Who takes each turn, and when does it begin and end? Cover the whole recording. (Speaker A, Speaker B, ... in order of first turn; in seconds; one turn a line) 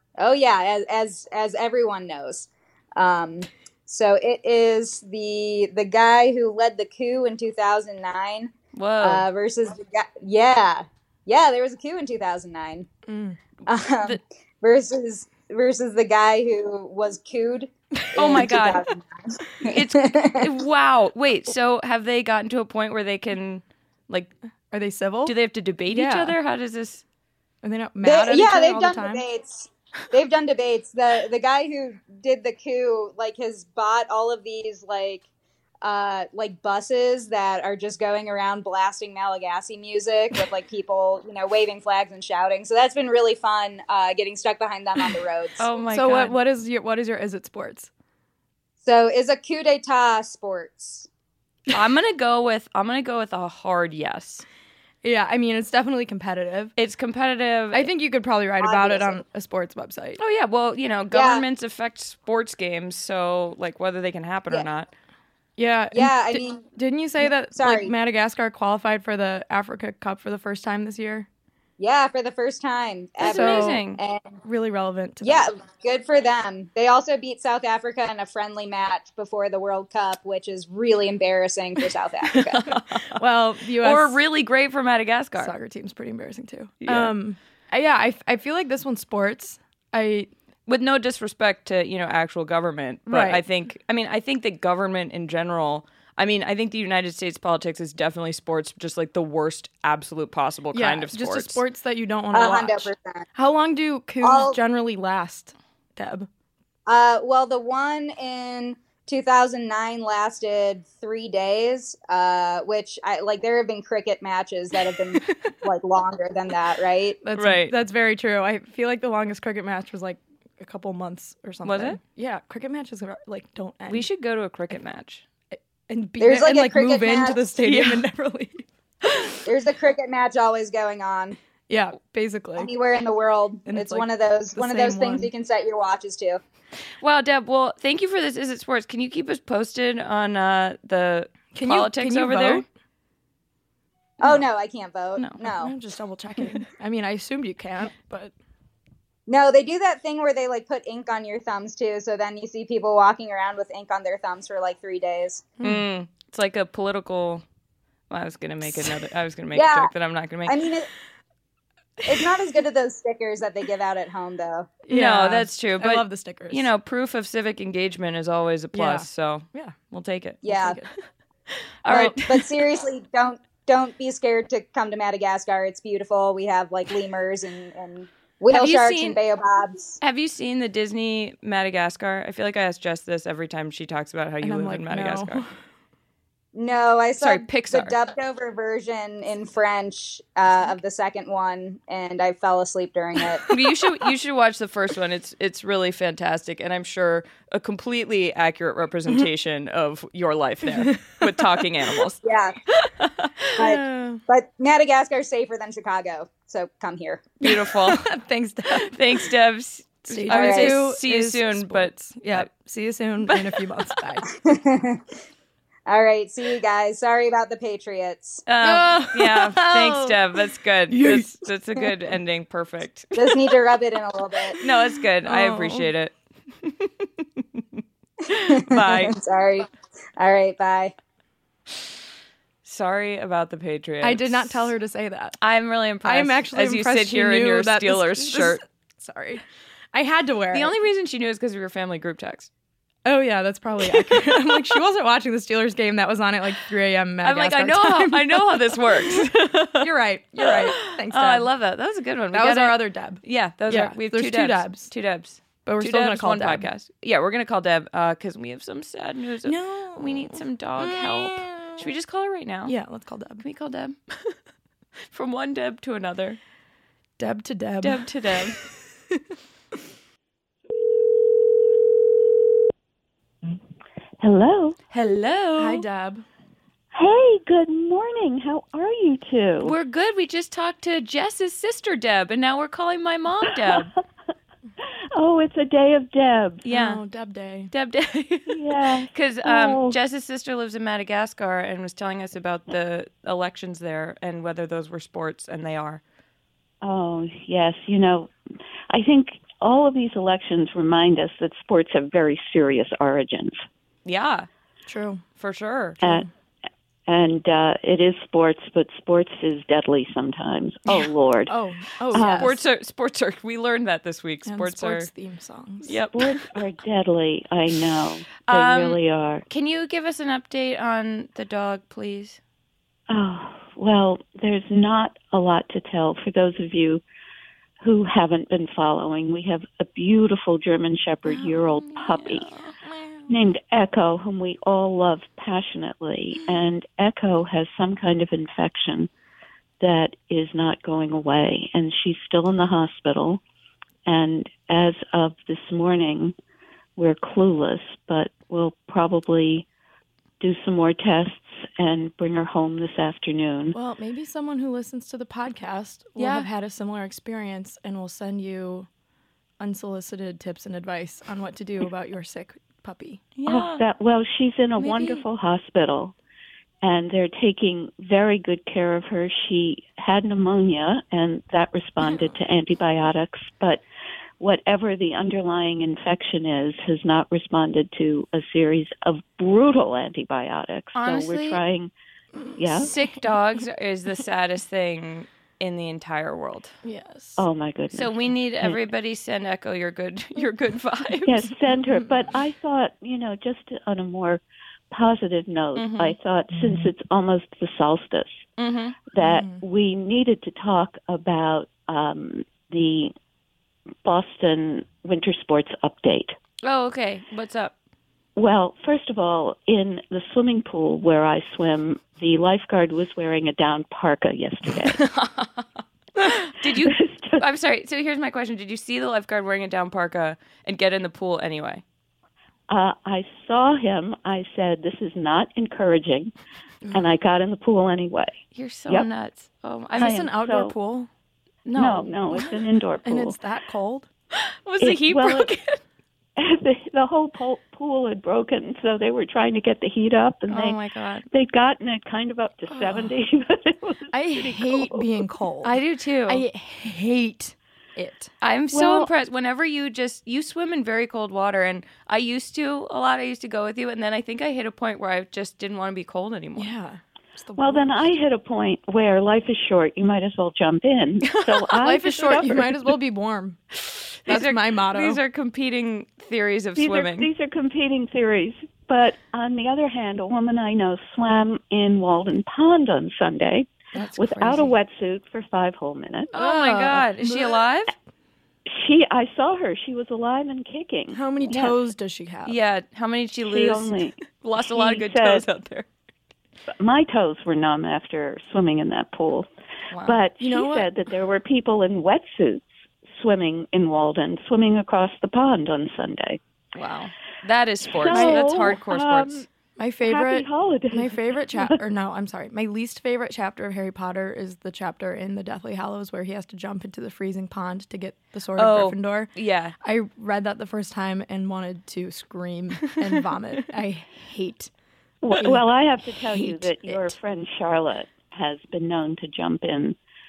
Speaker A: 0.2-12.9
Speaker B: 8.7-9.2
Speaker C: 13.1-13.4
Speaker A: 13.7-20.5
Speaker B: 18.1-18.8
Speaker B: 19.6-24.3
Speaker C: 24.7-25.3
Speaker B: 25.2-27.0
Speaker C: 25.9-26.4
Speaker C: 27.6-29.2
Speaker A: 28.0-35.2
Speaker A: 35.8-45.6
Speaker B: 45.6-46.4
Speaker C: 45.9-47.9
Speaker A: 48.8-51.1
Speaker B: 51.7-54.4
Speaker C: 55.0-56.7
Speaker B: 56.8-57.9
Speaker C: 57.7-60.2
Speaker A: 58.6-59.2
Speaker B: 60.2-64.9
Speaker A: 61.1-61.4
Speaker C: 65.6-71.3
Speaker A: 65.9-66.7
Speaker A: 67.5-67.9
Speaker A: 71.8-74.4
Speaker B: 73.2-74.0
Speaker C: 73.3-73.8
Speaker C: 74.4-75.5
Speaker A: 75.2-82.7
Speaker B: 82.3-83.2
Speaker C: 82.7-84.2
Speaker B: 83.8-85.5
Speaker C: 85.4-90.3
Speaker B: 86.8-87.1
Speaker B: 90.7-101.6
Speaker C: 93.1-93.4
Speaker C: 100.7-106.3
Speaker A: 102.3-103.2
Speaker A: 104.2-104.6
Speaker A: 106.9-117.2
Speaker C: 117.2-124.1
Speaker B: 117.4-117.7
Speaker B: 121.6-122.0
Speaker B: 123.9-125.2
Speaker C: 125.5-128.6
Speaker A: 126.2-127.5
Speaker B: 127.6-128.0
Speaker A: 129.4-131.4
Speaker C: 131.7-132.7
Speaker A: 132.6-136.4
Speaker C: 133.7-135.3
Speaker B: 137.0-142.6
Speaker C: 141.5-142.7
Speaker A: 144.2-145.7
Speaker C: 145.4-148.3
Speaker A: 149.3-155.5
Speaker C: 155.6-155.8
Speaker B: 155.6-157.4
Speaker B: 158.1-160.6
Speaker A: 159.5-159.9
Speaker A: 160.4-160.9
Speaker A: 162.0-164.8
Speaker C: 164.9-166.7
Speaker B: 164.9-170.4
Speaker C: 168.7-169.8
Speaker A: 170.4-170.8
Speaker C: 170.4-170.9
Speaker B: 171.8-172.5
Speaker A: 171.9-180.0
Speaker B: 178.5-179.2
Speaker B: 180.0-185.4
Speaker C: 184.4-185.5
Speaker A: 186.5-193.5
Speaker B: 187.2-187.9
Speaker B: 193.5-202.2
Speaker C: 200.8-201.1
Speaker A: 202.2-202.6
Speaker B: 202.8-203.6
Speaker A: 203.5-207.4
Speaker C: 203.6-204.2
Speaker B: 207.4-208.1
Speaker C: 207.4-209.3
Speaker B: 208.7-212.5
Speaker C: 210.1-214.3
Speaker A: 210.3-210.8
Speaker B: 213.2-213.7
Speaker A: 214.3-215.0
Speaker A: 215.8-218.4
Speaker B: 218.4-223.5
Speaker C: 218.6-220.2
Speaker C: 220.9-222.0
Speaker A: 223.1-224.6
Speaker B: 224.6-226.9
Speaker C: 225.2-225.9
Speaker A: 228.3-230.9
Speaker B: 228.3-229.2
Speaker B: 232.6-234.7
Speaker C: 234.0-235.4
Speaker B: 235.4-238.6
Speaker C: 236.0-240.7
Speaker B: 240.5-242.5
Speaker C: 243.0-251.5
Speaker B: 243.9-244.6
Speaker B: 247.2-249.9
Speaker B: 250.4-262.7
Speaker C: 252.3-254.9
Speaker C: 255.6-256.7
Speaker C: 259.4-261.8
Speaker C: 262.6-263.4
Speaker B: 263.4-264.3
Speaker B: 265.1-266.4
Speaker C: 267.2-269.2
Speaker B: 267.8-268.6
Speaker D: 271.2-271.7
Speaker D: 274.2-274.8
Speaker B: 274.9-275.8
Speaker C: 275.6-276.2
Speaker D: 276.9-279.7
Speaker B: 279.6-283.9
Speaker D: 285.1-286.6
Speaker B: 286.6-287.0
Speaker C: 286.7-287.7
Speaker B: 287.7-296.0
Speaker D: 288.5-289.9
Speaker D: 296.8-298.3
Speaker D: 298.9-303.6
Speaker B: 304.0-304.5
Speaker C: 304.9-305.2
Speaker B: 305.4-306.2
Speaker D: 306.0-306.3
Speaker D: 307.1-311.5
Speaker C: 311.5-312.5
Speaker D: 312.1-312.5
Speaker B: 312.1-315.1
Speaker C: 314.4-316.0
Speaker B: 315.8-316.5
Speaker D: 316.1-319.4
Speaker B: 318.4-322.4
Speaker D: 323.1-327.0
Speaker D: 327.8-332.6
Speaker B: 331.5-332.9
Speaker D: 333.3-339.1
Speaker D: 339.8-343.4
Speaker D: 344.1-346.3
Speaker D: 347.0-349.6
Speaker D: 350.4-353.8
Speaker C: 353.7-358.9
Speaker B: 356.2-356.5
Speaker C: 359.6-363.2
Speaker B: 363.4-363.8
Speaker D: 363.4-366.1
Speaker B: 364.8-365.2
Speaker D: 366.8-373.8
Speaker D: 374.4-381.9
Speaker B: 380.9-381.6
Speaker D: 382.6-382.9
Speaker B: 382.6-386.7
Speaker C: 386.8-387.4
Speaker D: 387.4-388.8
Speaker B: 387.9-391.5
Speaker D: 391.2-398.5
Speaker B: 395.8-396.1
Speaker B: 398.6-399.0
Speaker D: 399.1-403.1
Speaker C: 399.2-399.6
Speaker D: 404.0-406.4
Speaker B: 406.6-407.7
Speaker D: 408.4-415.1
Speaker B: 416.4-421.8
Speaker D: 416.7-417.4
Speaker D: 422.7-426.3
Speaker D: 426.9-429.1
Speaker B: 428.5-430.3
Speaker C: 430.0-431.1
Speaker D: 430.0-430.7
Speaker B: 431.6-432.5
Speaker D: 431.7-433.4
Speaker C: 433.0-434.1
Speaker B: 434.3-435.8
Speaker D: 434.8-435.5
Speaker D: 436.4-445.2
Speaker B: 440.5-441.2
Speaker C: 442.7-443.1
Speaker C: 444.1-448.3
Speaker B: 445.6-446.4
Speaker B: 448.4-456.7
Speaker D: 448.7-449.1
Speaker C: 456.6-458.0
Speaker D: 457.6-463.0
Speaker C: 461.4-463.6
Speaker C: 464.2-465.2
Speaker B: 464.2-467.3
Speaker D: 466.8-476.3
Speaker B: 473.9-474.7
Speaker B: 476.3-477.9
Speaker C: 476.3-477.6
Speaker D: 478.7-481.7
Speaker C: 481.1-482.6
Speaker B: 482.4-485.9
Speaker D: 483.4-485.4
Speaker D: 486.7-489.5
Speaker B: 489.9-490.2
Speaker D: 490.0-496.4
Speaker C: 490.4-490.9
Speaker B: 496.7-499.4
Speaker D: 498.0-499.5
Speaker C: 498.1-498.6
Speaker C: 499.8-514.7
Speaker D: 500.1-501.8
Speaker B: 508.6-509.7
Speaker D: 515.2-520.0
Speaker C: 515.3-515.6
Speaker C: 516.3-517.1